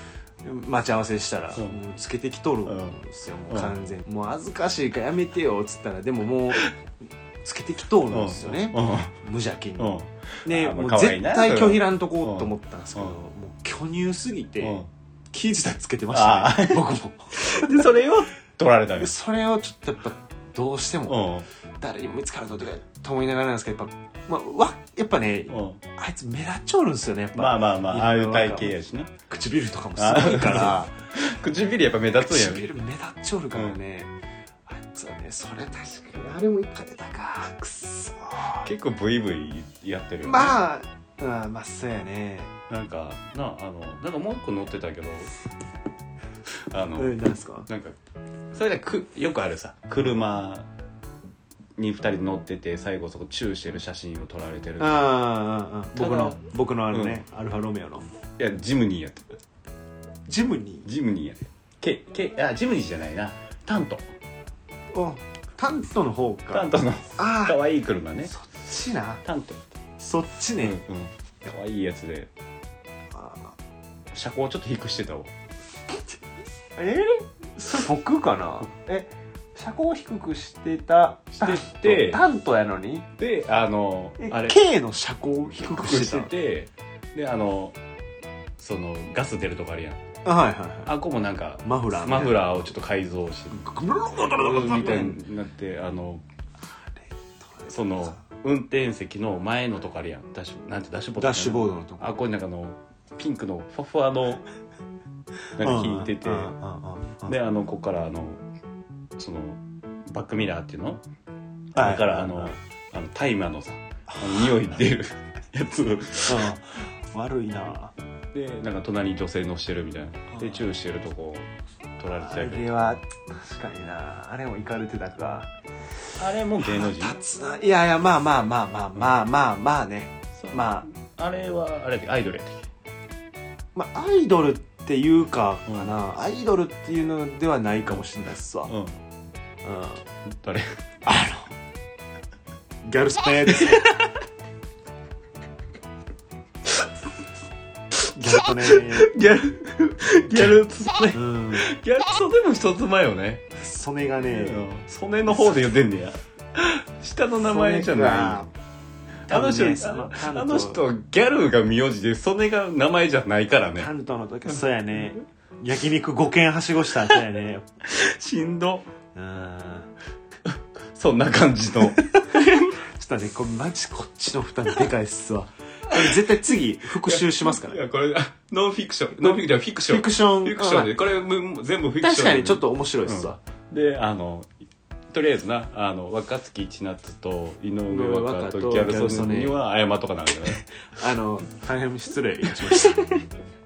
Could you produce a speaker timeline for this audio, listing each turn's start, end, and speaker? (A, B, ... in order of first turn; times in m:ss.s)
0:00.4-0:06.7 A
0:02.7-0:03.0 B
0:07.4-0:14.8 A
0:08.1-0:09.1 B
0:09.8-0:13.1 B
0:14.6-0:14.9 B
0:15.3-0:17.7 A
0:16.1-0:19.1 B
0:19.0-0:21.3 A
0:21.1-0:21.5 B
0:21.8-0:28.7 A
0:25.5-0:25.8 B
0:27.3-0:29.1 B
0:29.3-0:31.0 A
0:30.0-0:32.7 B
0:32.1-0:34.1 A
0:34.7-0:38.7 A
0:38.6-0:40.6 B
0:40.2-0:42.5 A
0:42.7-0:45.3 B
0:46.7-0:48.0 B
0:47.0-0:47.7 A
0:48.5-0:50.7 B
0:51.8-0:55.1 B
0:54.8-0:58.1 A
0:56.0-0:56.4 B
0:56.9-0:57.2 B
0:58.4-0:59.4 B
1:00.3-1:00.9 A
1:00.8-1:04.1 B
1:04.9-1:07.6 A
1:06.5-1:08.3 B
1:08.2-1:09.2 A
1:09.2-1:09.7 B
1:10.0-1:10.8 A
1:10.6-1:12.3 B
1:13.1-1:13.5 A
1:14.1-1:15.3 B
1:16.8-1:23.1 A
1:21.4-1:22.2 B
1:23.2-1:24.6 B
1:24.2-1:26.3 A
1:25.5-1:27.8 B
1:28.6-1:30.0 B
1:30.2-1:30.9 A
1:30.9-1:36.2 B
1:31.6-1:32.5 A
1:33.5-1:35.2 A
1:37.5-1:38.1 A
1:37.7-1:44.4 B
1:41.2-1:42.2 A
1:45.6-1:46.5 B
1:45.6-1:47.4 A
1:47.3-1:48.4 B
1:49.2-1:51.0 B
1:51.7-1:56.5 B
1:51.8-1:52.6 A
1:54.1-1:54.6 A
1:56.3-1:57.9 A
1:58.3-2:02.9 B
2:02.1-2:05.5 A
2:06.2-2:07.2 B
2:06.6-2:10.9 A
2:10.4-2:12.7 B
2:13.8-2:18.7 A
2:18.7-2:19.0 B
2:19.6-2:20.0 A
2:20.3-2:20.8 B
2:21.0-2:21.5 A
2:22.8-2:24.0 A
2:23.6-2:23.9 B
2:28.1-2:29.1 A
2:28.6-2:33.4 B
2:31.1-2:31.7 A
2:33.5-2:34.7 A
2:34.3-2:38.5 B
2:35.3-2:35.6 A
2:37.4-2:38.5 A
2:39.3-2:40.8 A
2:39.3-2:43.9 B
2:43.8-2:47.7 A
2:47.8-2:48.9 B
2:49.2-2:49.9 A
2:50.5-2:52.7 B
2:51.9-2:57.8 A
2:57.0-3:04.5 B
2:59.2-3:01.0 A
3:02.0-3:03.4 A
3:05.1-3:10.7 B
3:07.9-3:09.6 A
3:10.8-3:13.2 A